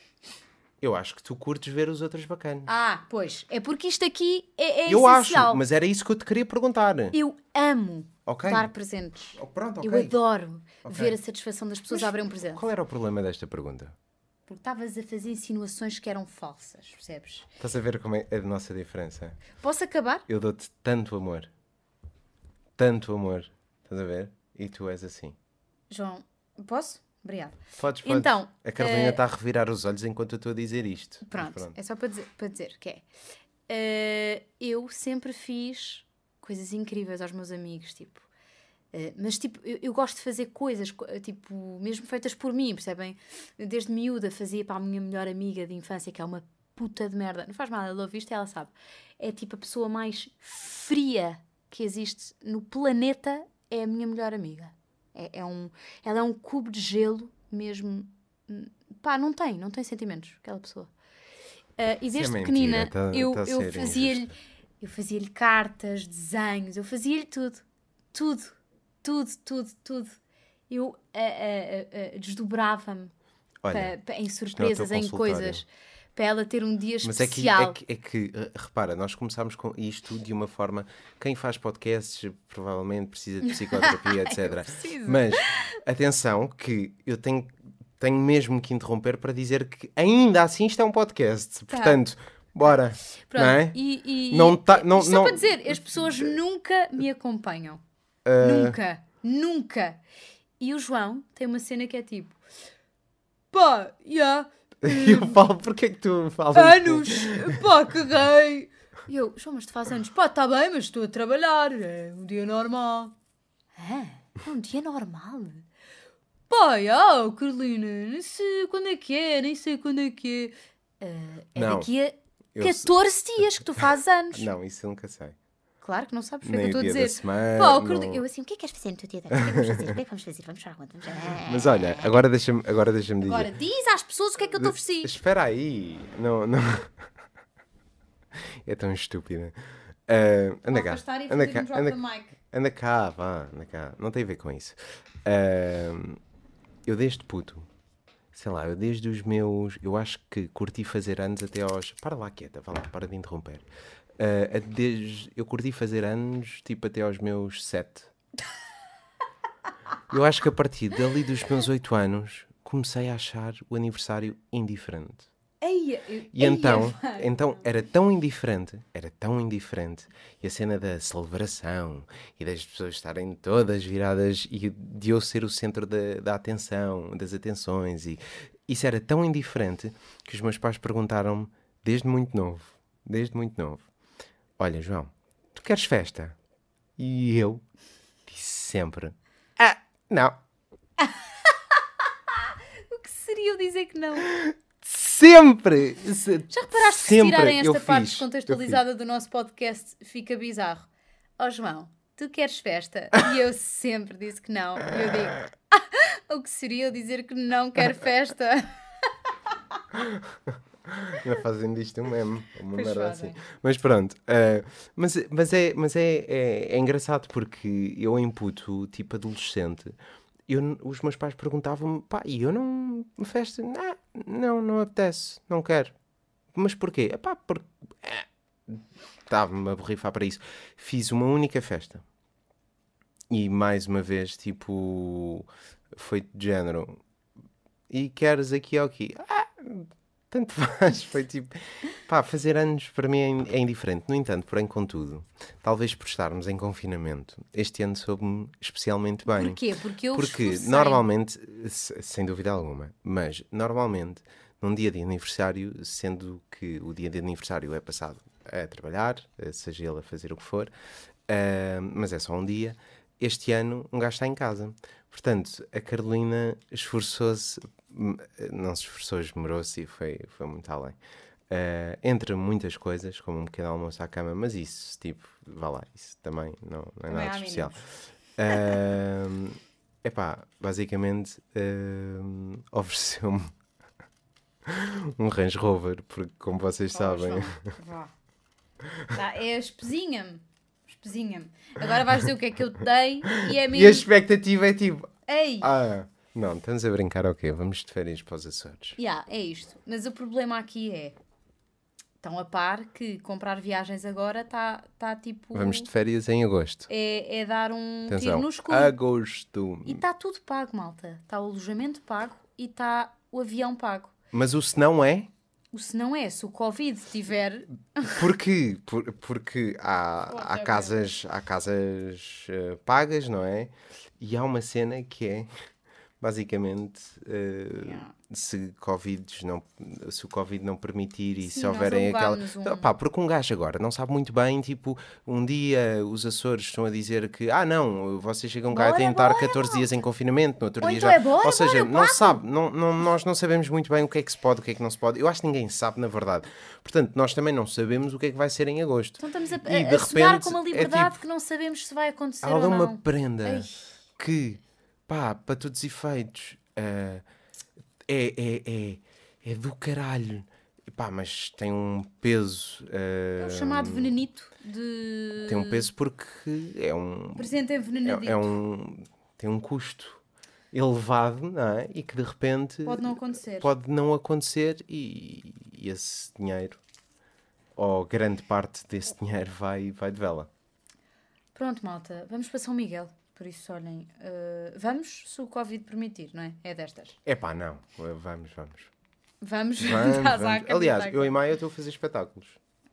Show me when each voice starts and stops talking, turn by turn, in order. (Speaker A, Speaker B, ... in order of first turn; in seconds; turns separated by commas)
Speaker A: 0.8-2.7, Speaker B: 2.6-5.6, Speaker A: 4.8-7.2, Speaker B: 7.1-12.6, Speaker A: 8.2-8.7, Speaker A: 9.3-10.2, Speaker A: 10.8-11.2, Speaker A: 11.9-13.9, Speaker B: 14.5-17.5, Speaker A: 17.6-19.4, Speaker B: 19.6-20.2, Speaker A: 20.3-21.5, Speaker A: 22.8-25.4, Speaker B: 25.9-29.2, Speaker A: 27.8-31.8, Speaker B: 31.2-33.0, Speaker B: 33.7-38.2, Speaker B: 38.9-60.9, Speaker B: 61.8-70.2, Speaker A: 62.1-64.3, Speaker B: 70.7-73.1, Speaker A: 73.6-73.9, Speaker B: 73.7-77.8, Speaker A: 74.5-75.6, Speaker A: 77.0-96.3, Speaker B: 83.5-85.7, Speaker B: 91.7-92.0, Speaker B: 93.3-97.8, Speaker A: 98.2-98.8, Speaker B: 98.4-100.0, Speaker B: 100.6-102.4, Speaker B: 103.5-105.4, Speaker A: 104.8-107.7, Speaker B: 106.5-113.1, Speaker B: 113.8-115.6, Speaker B: 116.5-124.5, Speaker A: 121.5-121.9, Speaker A: 122.5-122.9, Speaker A: 124.3-125.3, Speaker B: 125.8-132.1, Speaker A: 126.4-128.2, Speaker A: 129.3-129.9, Speaker A: 131.4-133.5, Speaker B: 133.2-135.1, Speaker A: 134.6-137.1, Speaker A: 138.6-139.6, Speaker A: 140.1-146.2, Speaker B: 140.7-142.4, Speaker A: 146.8-147.7, Speaker A: 148.3-153.7, Speaker A: 154.2-158.1, Speaker A: 160.1-165.3, Speaker B: 165.6-167.6, Speaker A: 166.3-183.9, Speaker A: 184.6-186.3, Speaker A: 187.0-187.6, Speaker A: 188.3-190.4, Speaker B: 192.3-194.3, Speaker A: 194.2-198.8, Speaker B: 196.5-200.9, Speaker B: 201.4-208.7, Speaker A: 209.9-219.9, Speaker B: 212.7-213.4, Speaker A: 220.5-225.9, Speaker A: 226.5-232.0, Speaker A: 233.3-237.0, Speaker A: 237.9-249.6, Speaker B: 249.3-251.0, Speaker A: 250.1-260.7, Speaker A: 261.3-271.0, Speaker A: 271.5-277.8, Speaker B: 277.1-277.7, Speaker A: 278.4-283.5, Speaker A: 284.6-287.7, Speaker B: 286.9-288.1, Speaker B: 289.1-294.1, Speaker A: 293.3-299.0, Speaker B: 295.3-295.7, Speaker B: 299.0-301.1, Speaker B: 302.2-305.9, Speaker A: 305.5-306.9, Speaker B: 306.9-308.9, Speaker A: 308.1-310.0, Speaker B: 309.8-314.1, Speaker A: 314.3-315.3, Speaker B: 315.7-318.2, Speaker A: 318.1-325.5, Speaker B: 320.3-321.1, Speaker A: 326.2-351.1, Speaker B: 327.7-328.1, Speaker B: 331.4-332.9, Speaker B: 338.7-339.9, Speaker B: 340.8-342.4, Speaker B: 349.2-353.7, Speaker A: 352.4-357.2, Speaker A: 358.1-364.1, Speaker B: 363.4-365.9, Speaker A: 365.4-370.2, Speaker B: 367.4-368.5, Speaker A: 370.7-376.8, Speaker B: 372.8-373.7, Speaker A: 377.8-380.5, Speaker B: 381.5-387.2, Speaker A: 387.2-388.9, Speaker B: 389.4-391.3, Speaker A: 389.8-392.6